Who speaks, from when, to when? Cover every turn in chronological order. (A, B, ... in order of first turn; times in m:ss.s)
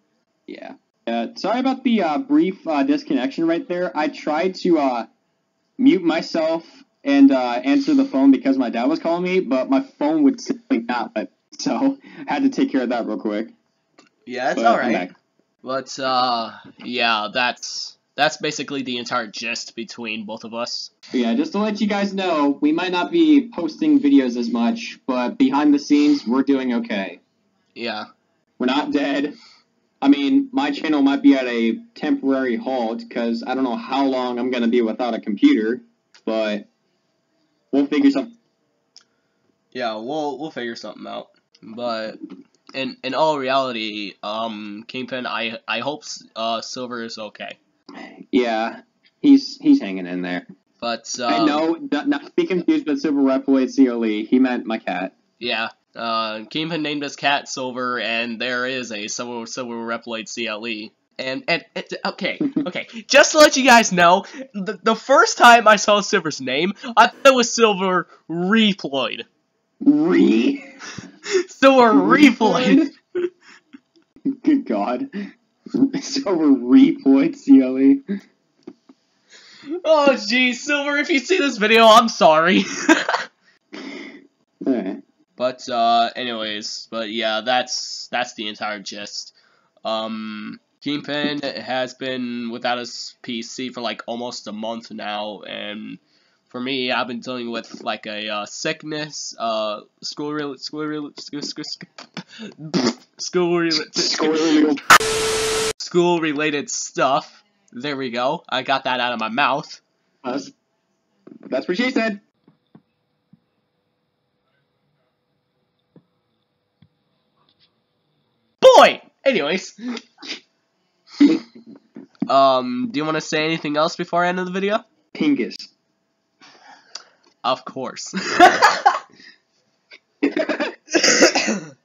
0:00.5-0:05.1 A
0:05.8-0:13.5 A
0:14.2-0:15.1 B
0:14.6-0:15.1 A
0:15.6-0:20.9 B
0:21.1-0:27.2 A
0:27.7-0:28.1 B
0:28.6-0:29.4 A
0:30.0-0:36.7 A
0:37.7-0:38.3 A
0:39.7-0:42.2 B
0:42.7-0:47.6 B
0:48.3-0:50.5 A
0:50.8-0:51.6 B
0:51.3-0:55.1 A
0:55.4-1:09.3 B
1:09.8-1:10.7 A
1:11.3-1:12.9 B
1:11.9-1:12.9 A
1:14.4-1:15.1 A
1:15.7-1:18.0 A
1:19.7-1:23.2 B
1:24.6-1:25.0 A
1:25.4-1:44.7 B
1:43.9-1:44.8 A
1:45.8-1:49.8 B
1:50.2-1:50.5 A
1:51.4-1:52.2 A
1:58.6-2:00.0 B
2:02.3-2:04.8 B
2:05.1-2:05.7 A
2:07.4-2:09.0 B
2:10.3-2:10.6 A
2:10.9-2:11.6 B